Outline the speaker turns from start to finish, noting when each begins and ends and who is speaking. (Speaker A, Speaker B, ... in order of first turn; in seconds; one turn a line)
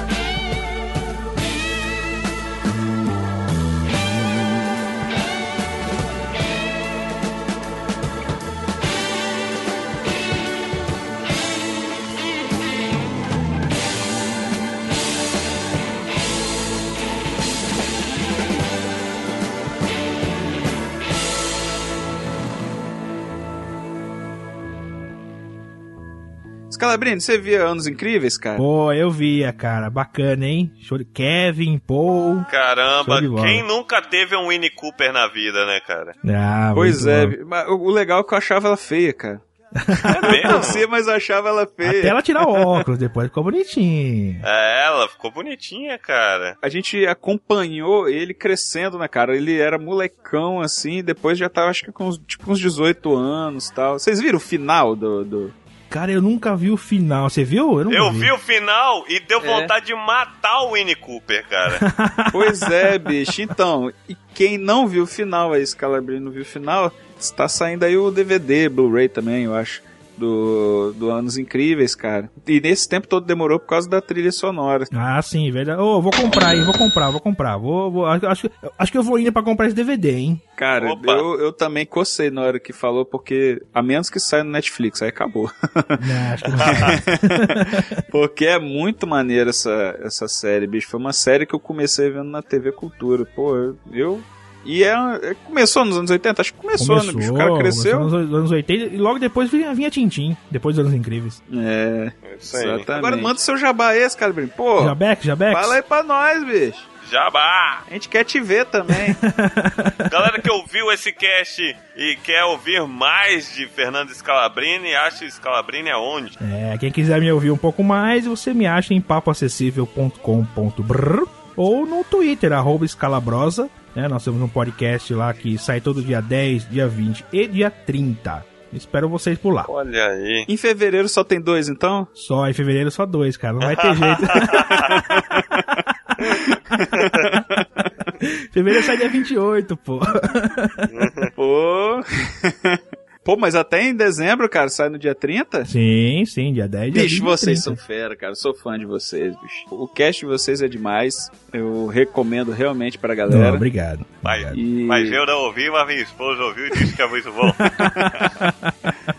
Speaker A: 26.7-28.6
Speaker B: 28.6-32.5
Speaker C: 32.5-36.1
Speaker B: 33.0-33.6
Speaker B: 36.2-37.4
Speaker A: 36.7-42.2
Speaker B: 39.8-40.7
Speaker C: 40.2-40.9
Speaker B: 41.8-44.4
Speaker C: 44.4-46.5
Speaker A: 46.6-55.5
Speaker B: 55.9-58.3
Speaker C: 57.9-61.8
Speaker A: 59.4-59.7
Speaker B: 61.7-62.9
Speaker A: 62.3-74.9
Speaker B: 74.9-80.4
Speaker A: 80.6-98.1
Speaker C: 80.8-81.3
Speaker B: 86.0-87.8
Speaker C: 86.6-87.0
Speaker B: 96.8-101.4
Speaker A: 101.5-105.0
Speaker C: 102.2-103.3
Speaker B: 104.8-105.8
Speaker A: 105.5-106.9
Speaker C: 107.0-107.8
Speaker A: 107.9-109.2
Speaker B: 109.0-110.1
Speaker C: 110.1-116.4
Speaker B: 116.4-129.7
Speaker C: 129.7-130.5
Speaker A: 130.5-132.1
Speaker B: 132.2-135.2
Speaker C: 133.6-134.9
Speaker A: 134.7-135.6
Speaker A: 136.4-137.9
Speaker B: 138.2-140.9
Speaker C: 140.9-141.3
Speaker A: 141.4-145.7
Speaker B: 145.7-147.8
Speaker A: 146.9-153.7
Speaker B: 153.3-154.6
Speaker C: 154.2-157.7
Speaker A: 154.5-155.2
Speaker A: 157.8-158.2
Speaker B: 157.8-158.7